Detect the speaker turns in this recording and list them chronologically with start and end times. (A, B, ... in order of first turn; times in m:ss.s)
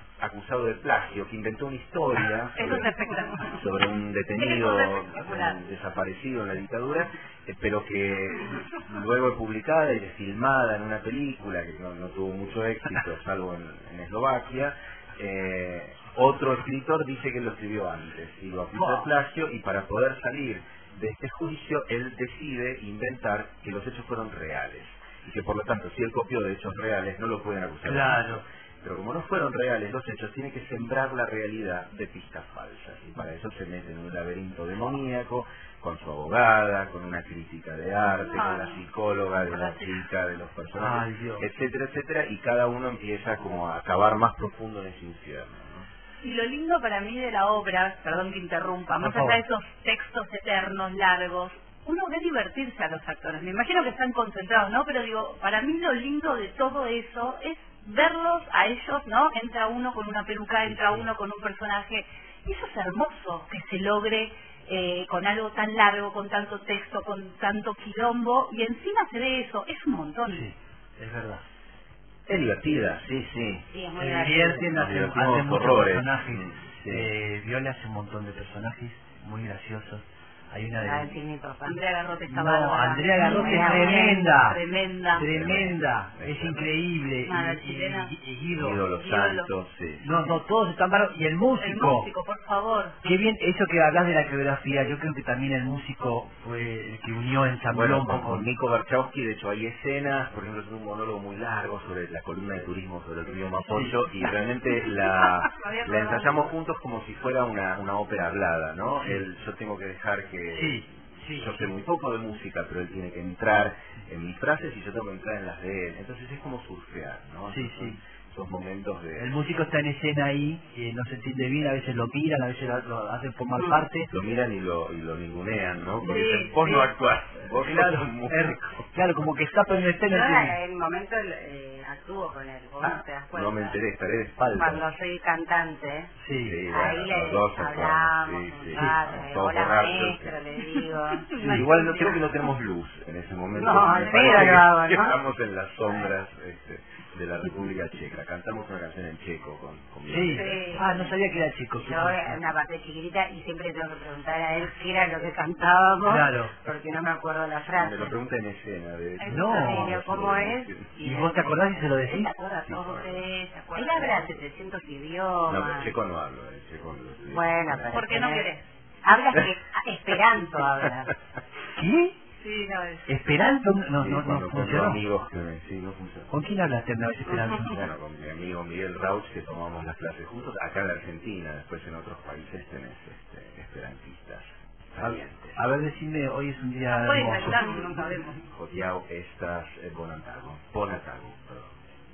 0:00.2-0:02.9 A
0:02.6-0:03.7 B
0:03.5-0:45.9 A
0:04.4-0:05.6 B
0:18.8-0:19.1 C
0:27.8-0:28.4 C
0:38.3-0:38.8 B
0:39.4-0:40.0 B
0:40.8-0:41.4 C
0:46.2-1:10.5 B
0:49.0-0:49.4 C
1:00.7-1:01.1 C
1:10.3-1:11.4 C
1:12.3-1:13.7 A
1:13.7-1:14.7 D
1:14.0-1:21.1 C
1:14.7-1:17.1 A
1:20.8-1:21.8 D
1:21.6-1:25.3 B
1:22.3-1:24.6 C
1:23.2-1:24.2 D
1:25.1-1:28.8 C
1:25.2-1:26.7 A
1:27.3-1:28.1 B
1:28.5-1:30.1 A
1:29.0-1:29.5 B
1:30.0-1:32.1 C
1:31.6-1:33.0 B
1:33.0-1:38.5 C
1:37.7-1:59.4 A
1:45.1-1:46.5 B
1:50.5-1:51.6 C
1:57.5-1:58.0 C
1:59.2-2:04.1 C
2:03.6-2:03.8 D
2:04.1-2:08.9 A
2:06.0-2:06.9 B
2:07.5-2:10.6 C
2:10.1-2:13.8 D
2:13.3-2:14.8 A
2:14.4-2:14.7 C
2:14.5-2:16.1 D
2:16.2-2:16.6 C
2:16.4-2:20.4 A
2:16.7-2:21.3 D
2:20.8-2:22.2 B
2:21.4-2:30.8 A
2:23.6-2:25.2 D
2:23.9-2:24.5 B
2:30.1-2:32.3 C
2:30.2-2:31.1 D
2:31.8-2:38.1 D
2:36.0-2:36.5 C
2:37.8-2:40.9 A
2:39.2-2:39.6 B
2:39.3-2:39.9 C
2:39.5-2:45.9 D
2:41.0-2:42.3 C
2:42.6-2:43.3 A
2:43.2-2:44.3 B
2:45.5-2:48.1 A
2:47.3-2:51.1 D
2:47.9-2:48.6 B
2:51.8-2:52.2 C
2:52.4-2:53.1 B
2:53.1-2:55.0 C
2:54.0-2:56.3 A
2:56.3-2:57.8 C
2:57.6-3:05.6 A
3:05.0-3:07.7 C
3:06.9-3:08.4 B
3:07.8-3:11.8 A